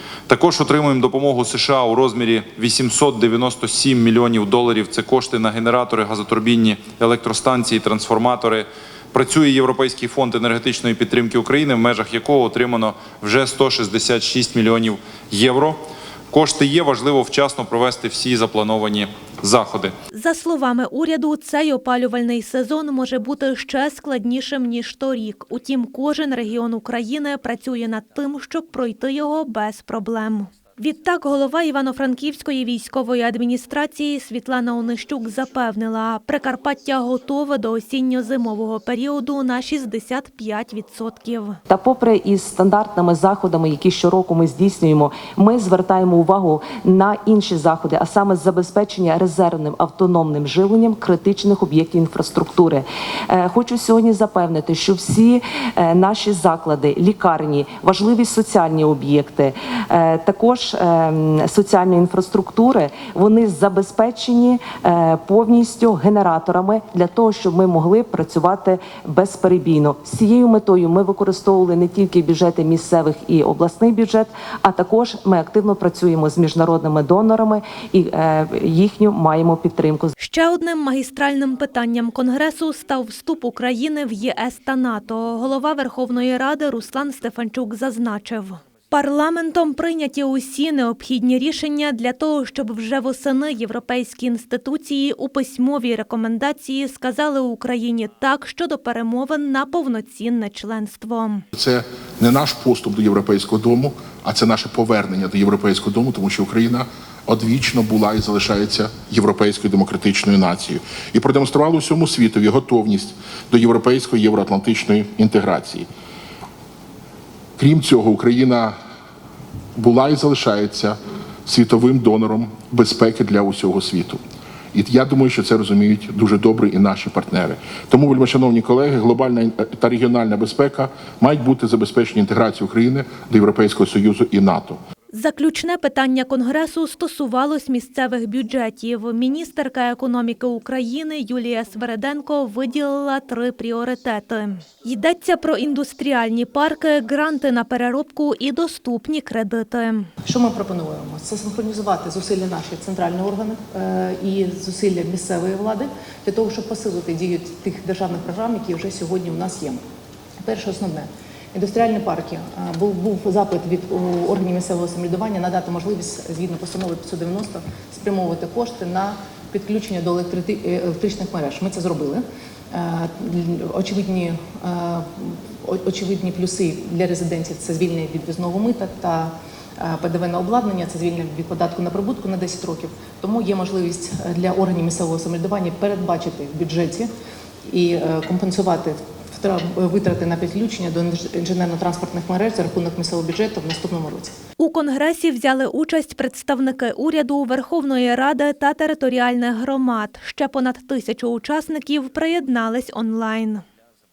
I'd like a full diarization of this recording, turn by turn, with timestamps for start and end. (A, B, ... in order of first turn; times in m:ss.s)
0:00.3-0:19.9 A
0:20.1-0:41.6 B
0:41.7-1:20.1 C
1:20.2-1:41.4 B
1:41.5-1:55.9 D
1:57.6-1:58.8 D
1:59.8-2:04.2 D
2:04.7-2:14.8 D
2:15.1-2:30.1 B
2:30.2-2:39.8 E
2:40.4-3:07.1 E
3:07.6-3:14.4 E
3:14.6-3:23.6 B